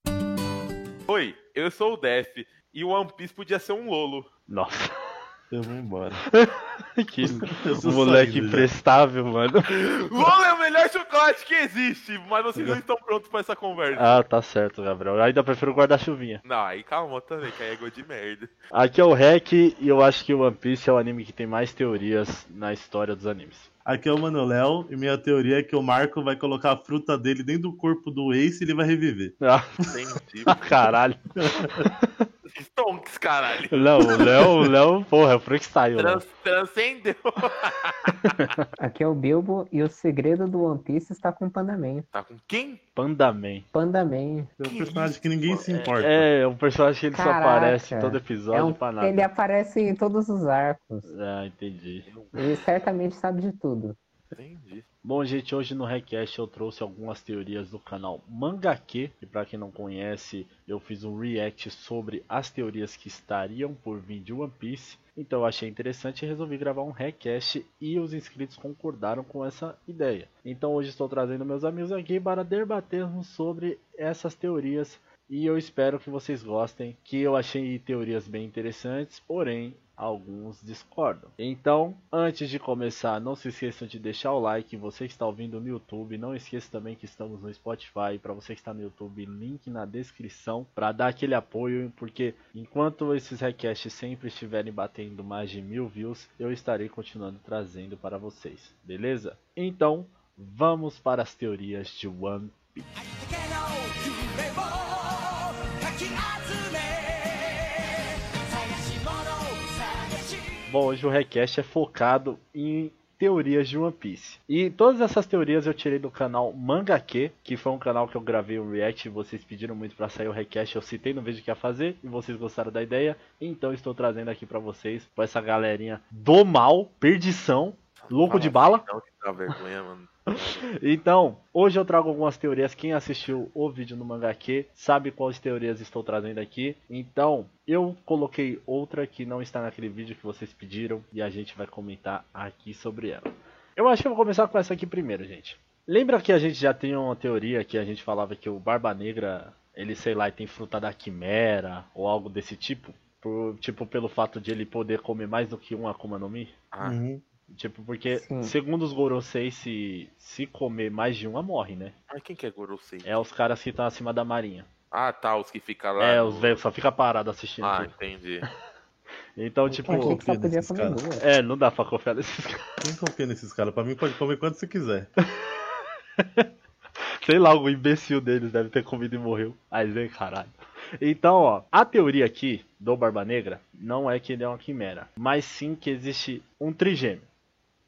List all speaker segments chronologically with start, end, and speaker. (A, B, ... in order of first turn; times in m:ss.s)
0:01.1-0:04.3 A
0:04.5-0:04.9 B
0:05.5-0:06.2 C
0:06.3-0:09.7 B
0:07.2-0:08.7 C
0:09.7-0:14.2 A
0:14.0-0:16.4 B
0:16.4-0:18.5 A
0:18.7-0:23.7 B
0:23.8-0:30.0 C
0:29.4-0:29.7 B
0:29.9-0:30.9 A
0:30.5-0:32.2 B
0:31.4-0:31.9 C
0:32.5-0:34.3 A
0:33.7-0:36.2 B
0:34.0-0:34.7 C
0:36.0-0:38.4 A
0:38.2-0:38.7 B
0:38.8-0:42.0 D
0:42.1-0:42.8 A
0:43.0-0:43.7 B
0:43.7-0:44.5 D
0:44.6-0:46.3 C
0:44.6-0:45.8 A
0:45.8-0:49.3 B
0:47.1-0:51.1 D
0:51.0-0:52.1 B
0:52.1-0:52.6 A
0:52.4-0:54.0 D
0:54.3-0:54.8 A
0:55.0-1:42.9 B
1:42.9-1:50.5 E
1:50.7-2:08.8 B
2:08.0-2:10.7 A
2:10.7-2:36.5 B
2:36.7-2:37.0 A
2:36.8-2:37.2 C
2:37.5-2:41.9 B
2:38.1-2:38.5 D
2:42.1-2:43.2 A
2:43.0-2:44.7 B
2:44.9-2:46.6 A
2:46.0-2:47.9 B
2:47.6-2:48.5 A
2:49.4-2:50.2 B
2:49.7-2:51.0 C
2:49.9-2:51.2 D
2:51.2-2:52.6 B
2:52.8-2:55.1 C
2:56.2-2:56.5 B
2:57.2-3:07.2 B